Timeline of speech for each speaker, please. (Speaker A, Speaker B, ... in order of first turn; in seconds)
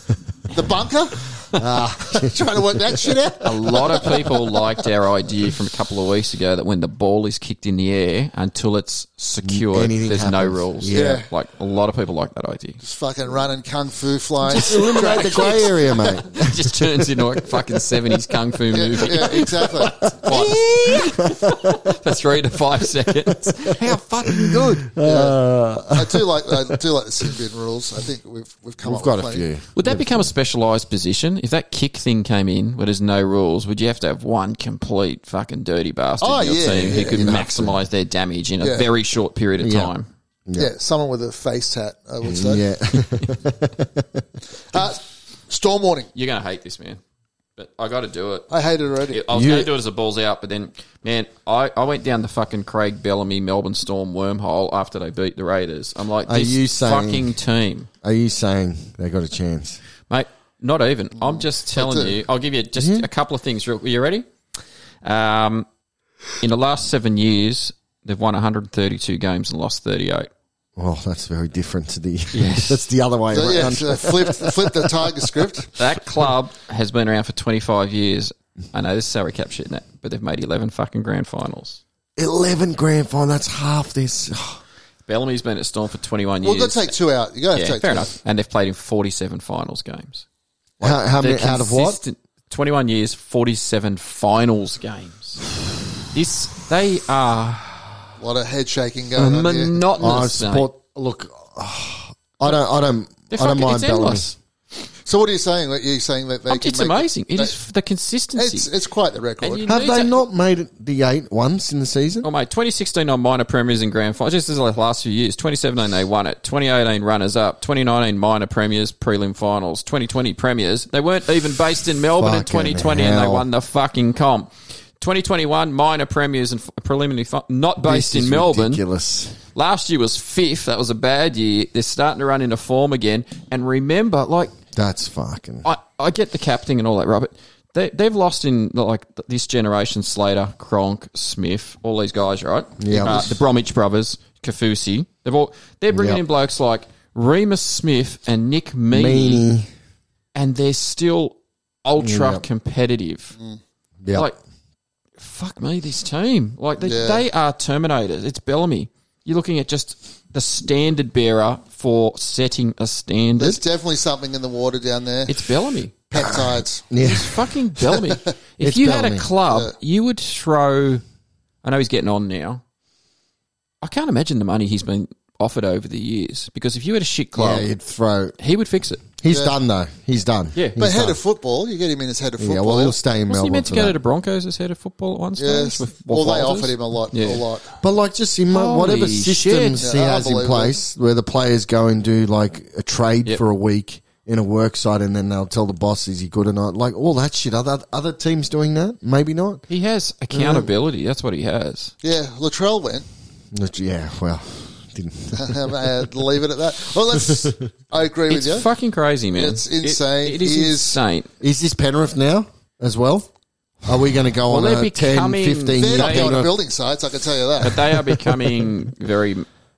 Speaker A: 0.5-1.2, 2.0-4.3, 10.9-11.3, 12.8-16.0, 18.7-20.0, 25.0-29.4, 36.2-37.4, 38.6-38.9, 40.6-42.6, 44.7-46.1, 48.5-49.2, 61.2-62.1, 73.3-75.7, 86.4-88.1, 98.2-99.8, 105.0-107.5, 108.3-109.7, 156.8-157.2, 163.4-165.4, 166.1-166.8, 169.5-169.7, 179.3-179.6, 180.8-183.0, 185.4-187.8, 189.8-190.8, 202.0-203.0, 205.3-208.7, 209.3-211.0, 215.8-217.8
Speaker B: 1.5-3.1, 9.4-11.2, 14.5-16.8, 19.3-21.7, 23.2-26.6, 28.8-30.3, 36.9-37.8, 39.6-39.9, 42.2-44.2, 49.3-49.7, 56.2-57.3, 58.0-59.8, 62.8-63.1, 70.8-75.2, 82.2-84.6, 90.8-92.0, 100.0-104.3, 109.6-112.3, 122.2-123.5, 127.8-129.4, 134.7-135.7, 142.8-143.4, 145.9-146.2, 148.9-149.7, 152.0-152.4, 154.0-154.3, 166.9-167.5, 168.6-169.2, 177.3-178.4, 179.2-181.2, 182.4-183.9, 187.8-199.7, 200.3-200.7, 203.5-205.7, 207.2-207.7, 211.4-213.3, 213.8-216.5
Speaker C: 3.4-12.8, 14.5-15.8, 16.3-24.9, 29.8-40.1, 46.1-47.0, 47.6-48.5, 49.1-57.9, 60.1-64.3, 65.0-65.7, 66.4-70.3, 72.3-72.9, 75.8-81.8, 85.1-86.9, 87.5-90.2, 90.8-95.5, 96.0-98.1, 99.2-100.7, 103.3-104.3, 106.5-108.7, 109.4-110.2, 112.2-128.8, 129.5-134.5, 135.6-149.5, 150.3-153.3, 155.2-163.6, 165.3-165.9, 167.0-171.0, 171.6-172.6, 173.8-177.7, 178.4-179.0, 183.3-187.4, 188.5-189.8, 199.7-201.9, 208.3-211.3, 214.5-216.5, 217.6-219.5